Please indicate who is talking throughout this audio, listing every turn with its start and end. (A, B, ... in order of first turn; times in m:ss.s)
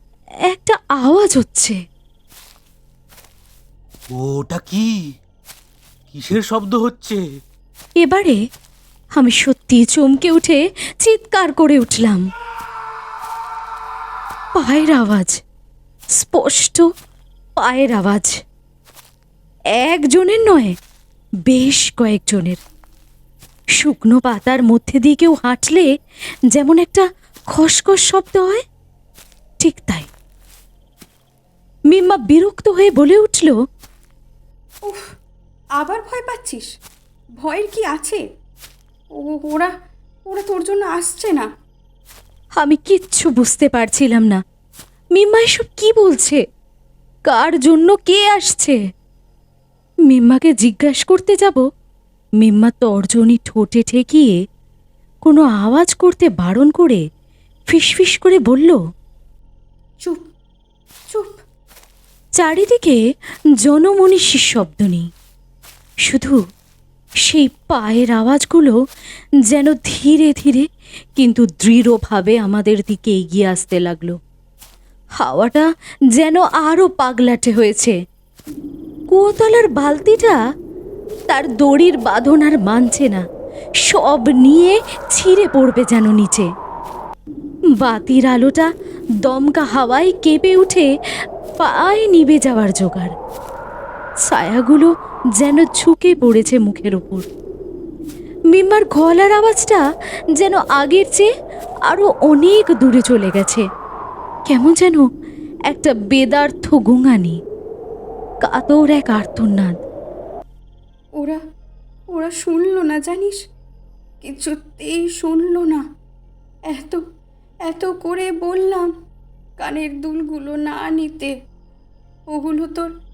0:00.5-0:01.8 A
0:04.1-0:04.9 B
0:06.1-0:07.2 B
0:08.0-0:08.4 A
0:09.2-0:12.2 A
0:14.6-0:15.4 A
0:16.2-0:16.9 A
0:17.6-0:18.4 A
0:19.8-0:20.8 A
0:21.5-0:22.6 A
0:23.8-0:25.9 A
0:26.5-0:28.6 A
0:29.6-0:30.1 A
0:31.9-0:33.6 A
0:34.8-0:35.1 C
0:35.8-0:36.7 C
0:37.4-0:38.2 C
0:39.1-0:39.7 C
0:40.2-0:41.5 C
0:42.6-0:44.4 A
0:45.1-0:46.4 A
0:47.3-0:48.8 A
0:50.1-0:51.6 A
0:52.4-0:54.4 A
0:55.2-0:57.0 A
0:57.7-0:58.8 A
1:01.1-1:01.4 C
1:02.4-1:03.0 A
1:03.6-1:05.1 A
1:06.1-1:06.4 A
1:07.3-1:08.8 A
1:09.5-1:14.2 A
1:15.2-1:18.0 A
1:19.1-1:20.4 A
1:21.3-1:23.2 A
1:23.8-1:26.5 A
1:27.8-1:28.7 A
1:29.2-1:30.9 A
1:31.6-1:33.1 A
1:34.3-1:37.3 A
1:38.5-1:39.8 A
1:40.3-1:41.3 A
1:41.9-1:43.6 A
1:44.5-1:45.1 A
1:45.7-1:47.4 A
1:48.4-1:49.8 A
1:52.1-1:53.4 C
1:54.2-1:55.8 C
1:56.7-1:57.0 C
1:57.7-1:58.9 C
1:59.6-2:01.4 C
2:02.3-2:02.9 C